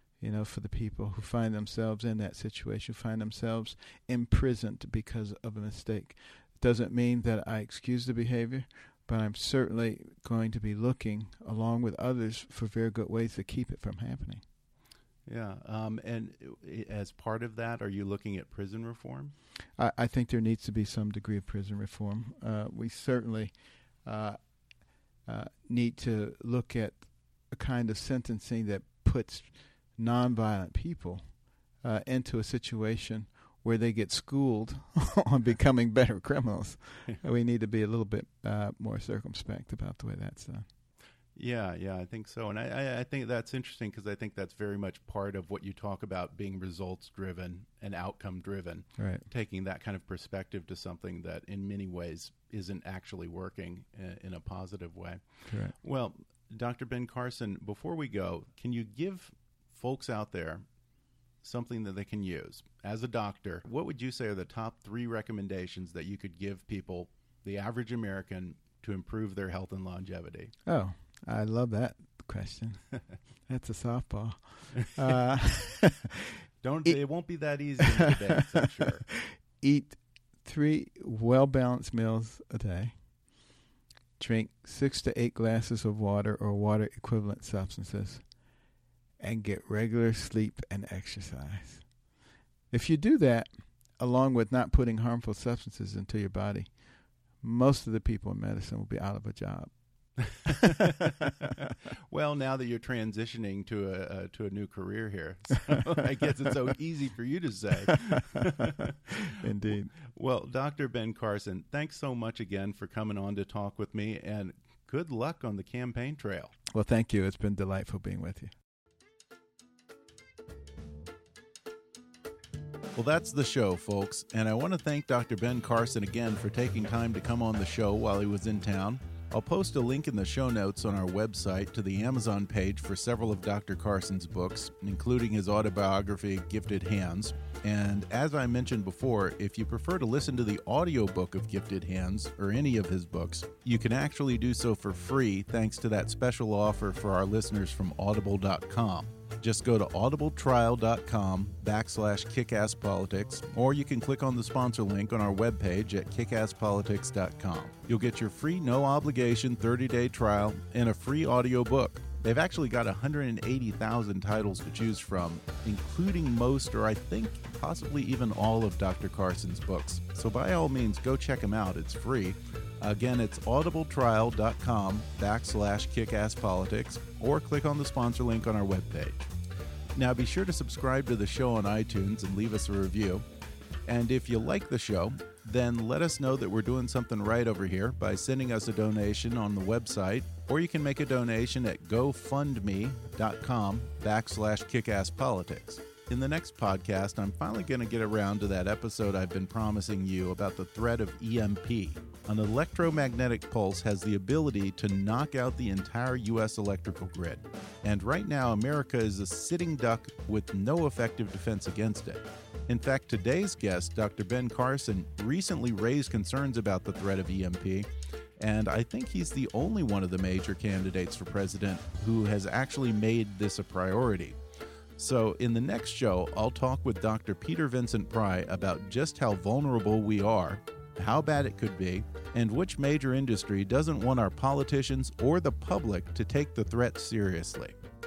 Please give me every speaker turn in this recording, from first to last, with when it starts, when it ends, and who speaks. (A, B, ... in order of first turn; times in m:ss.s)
0:00.2-0:14.4 A
0:15.3-0:19.3 B
0:19.8-0:24.4 A
0:25.2-0:40.7 A
0:41.4-1:00.6 B
0:49.0-0:49.3 A
0:55.5-0:55.8 A
1:01.4-1:10.5 B
1:10.7-1:16.2 A
1:16.6-1:19.1 B
1:17.8-1:18.1 A
1:18.8-1:23.0 A
1:24.2-1:28.3 A
1:29.2-1:32.0 A
1:32.7-1:40.5 A
1:42.1-1:48.9 B
1:49.4-1:49.9 A
1:50.1-1:56.5 B
1:56.7-1:58.5 A
2:03.0-2:59.3 B
3:00.0-3:03.3 B
3:03.9-3:37.9 B
3:38.4-3:44.4 B
3:45.0-3:57.8 B